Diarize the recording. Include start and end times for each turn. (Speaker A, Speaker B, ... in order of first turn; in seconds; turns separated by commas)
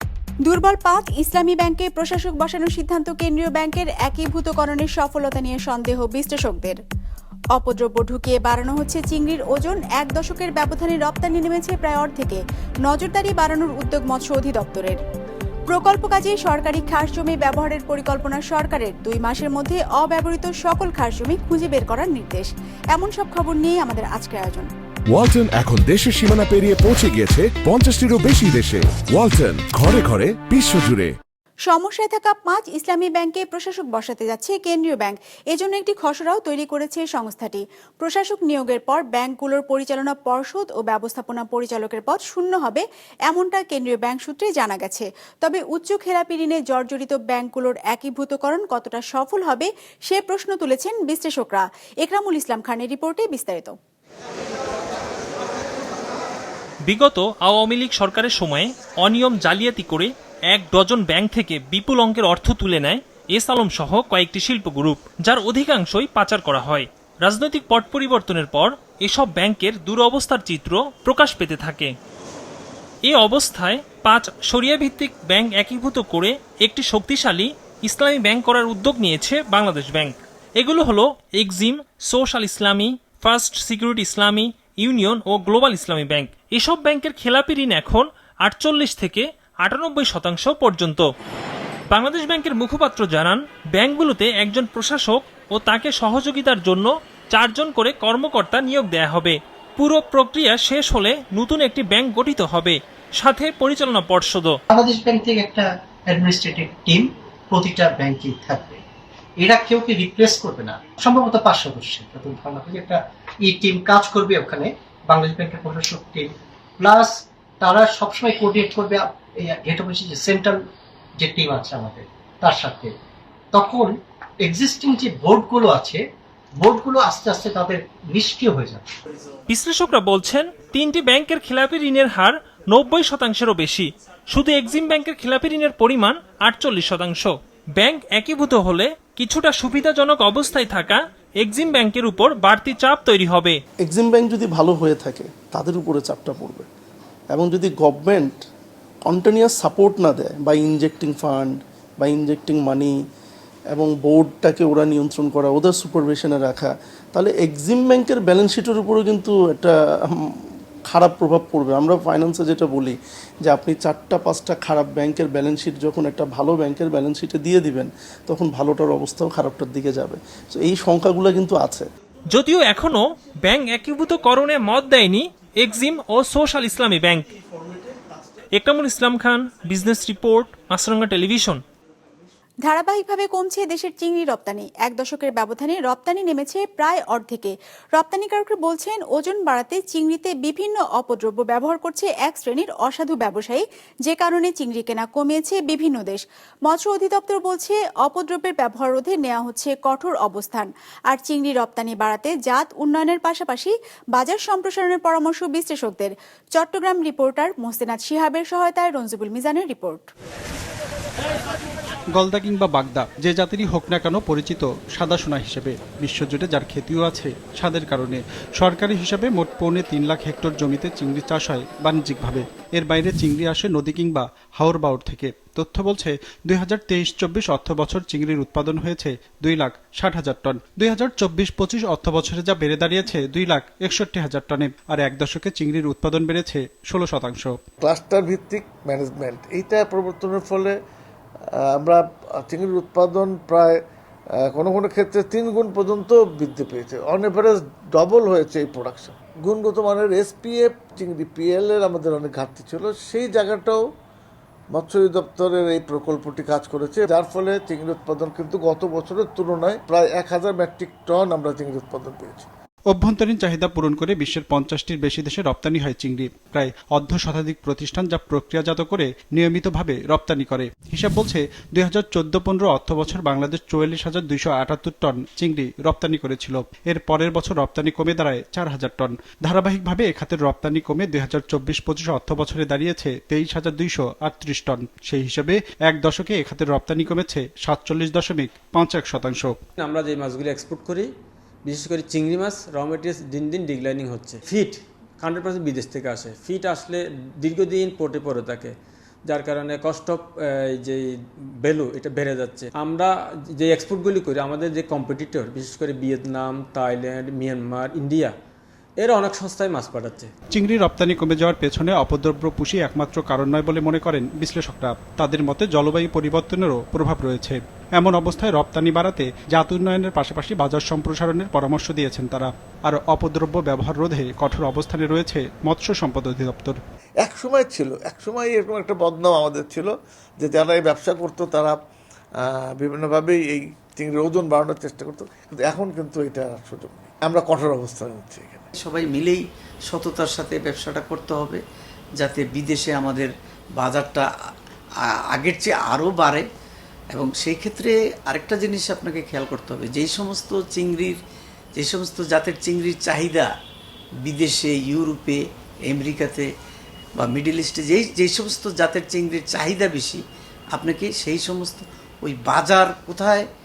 Speaker A: 0.4-6.8, Speaker A: 7.5-15.0, Speaker A: 15.7-24.7, Speaker B: 25.1-31.1, Speaker A: 31.6-53.8, Speaker C: 56.9-71.9, Speaker C: 73.1-91.1, Speaker C: 91.9-104.5, Speaker D: 104.7-108.8, Speaker D: 109.4-120.6, Speaker D: 121.2-122.9, Speaker D: 123.5-126.0, Speaker D: 126.6-128.8, Speaker C: 129.5-143.6, Speaker E: 143.8-146.7, Speaker E: 147.3-148.4, Speaker E: 149.1-152.9, Speaker E: 153.7-160.2, Speaker E: 160.9-171.9, Speaker C: 172.3-177.3, Speaker C: 178.6-181.6, Speaker A: 182.6-210.1, Speaker F: 212.1-237.6, Speaker G: 237.8-240.8, Speaker G: 241.6-243.8, Speaker G: 244.4-253.8, Speaker G: 254.7-262.5, Speaker F: 262.9-289.6, Speaker H: 289.8-291.1, Speaker H: 291.6-308.3, Speaker H: 309.0-310.3, Speaker F: 310.5-326.8, Speaker G: 327.2-331.8, Speaker G: 332.4-338.7, Speaker I: 338.9-339.4, Speaker I: 339.9-341.6, Speaker I: 342.2-344.3, Speaker I: 345.3-346.4, Speaker I: 347.1-351.2, Speaker I: 351.8-353.5, Speaker I: 354.2-356.5, Speaker I: 357.2-360.2, Speaker I: 360.7-363.4